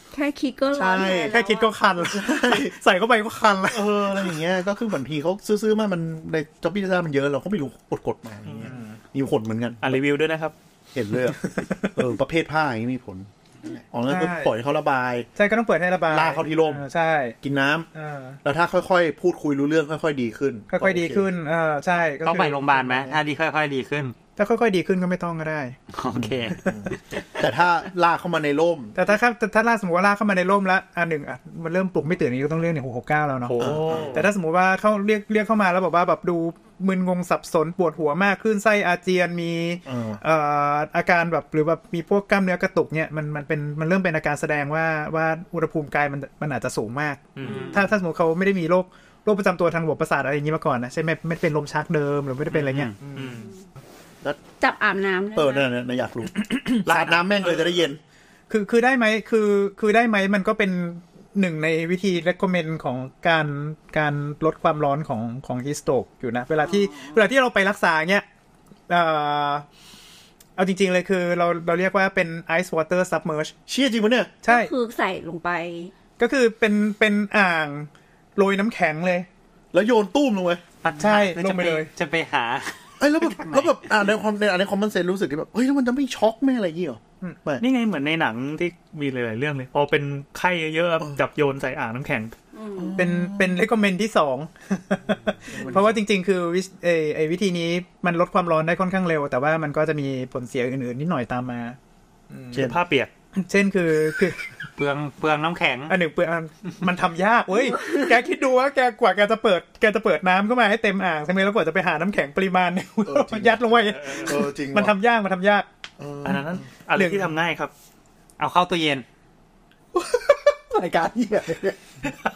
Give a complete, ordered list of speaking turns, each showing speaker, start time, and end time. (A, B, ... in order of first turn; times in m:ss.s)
0:00.1-0:01.7 A
0:00.7-0:01.4 B
0:01.2-0:04.4 C
0:02.0-0:02.8 B
0:03.7-0:10.0 B
0:08.6-0:09.0 C
0:09.8-0:10.5 D
0:10.9-0:15.3 B
0:11.4-0:12.0 C
0:14.1-0:14.5 C
0:15.4-0:17.4 C
0:16.1-0:16.8 B
0:17.4-0:17.9 B
0:17.9-0:18.4 C
0:18.4-0:21.3 B
0:20.7-0:23.1 C
0:22.2-0:24.2 E
0:24.4-0:25.8 C
0:25.9-0:27.2 E
0:26.1-0:29.0 B
0:29.0-0:53.5 C
0:33.5-0:34.3 D
0:33.6-0:34.3 B
0:39.9-0:40.2 B
0:47.4-0:47.7 D
0:47.5-0:47.8 A
0:52.5-0:52.9 E
0:53.2-0:53.5 D
0:54.6-0:55.7 A
0:55.3-0:58.0 B
0:56.5-0:56.8 C
0:56.8-0:57.8 D
0:58.5-1:08.2 C
1:06.7-1:07.2 A
1:08.9-1:09.6 C
1:10.6-1:13.5 C
1:13.7-1:14.4 B
1:14.4-1:14.7 C
1:14.4-1:15.9 A
1:16.2-1:19.3 C
1:19.7-1:20.6 B
1:20.8-1:23.8 E
1:21.0-1:21.9 C
1:23.0-1:27.6 B
1:27.6-1:32.4 D
1:32.5-1:33.0 A
1:32.8-1:33.6 B
1:33.0-1:41.8 C
1:35.5-1:36.0 B
1:42.3-1:42.6 C
1:42.5-1:42.8 B
1:42.5-1:43.1 D
1:43.4-1:44.5 C
1:44.8-1:46.0 E
1:45.9-1:55.7 C
1:53.1-1:54.9 B
1:54.0-1:54.3 D
1:56.0-1:56.6 B
1:56.2-1:57.7 D
1:57.0-1:57.3 C
1:58.4-1:59.0 E
2:00.0-2:01.8 B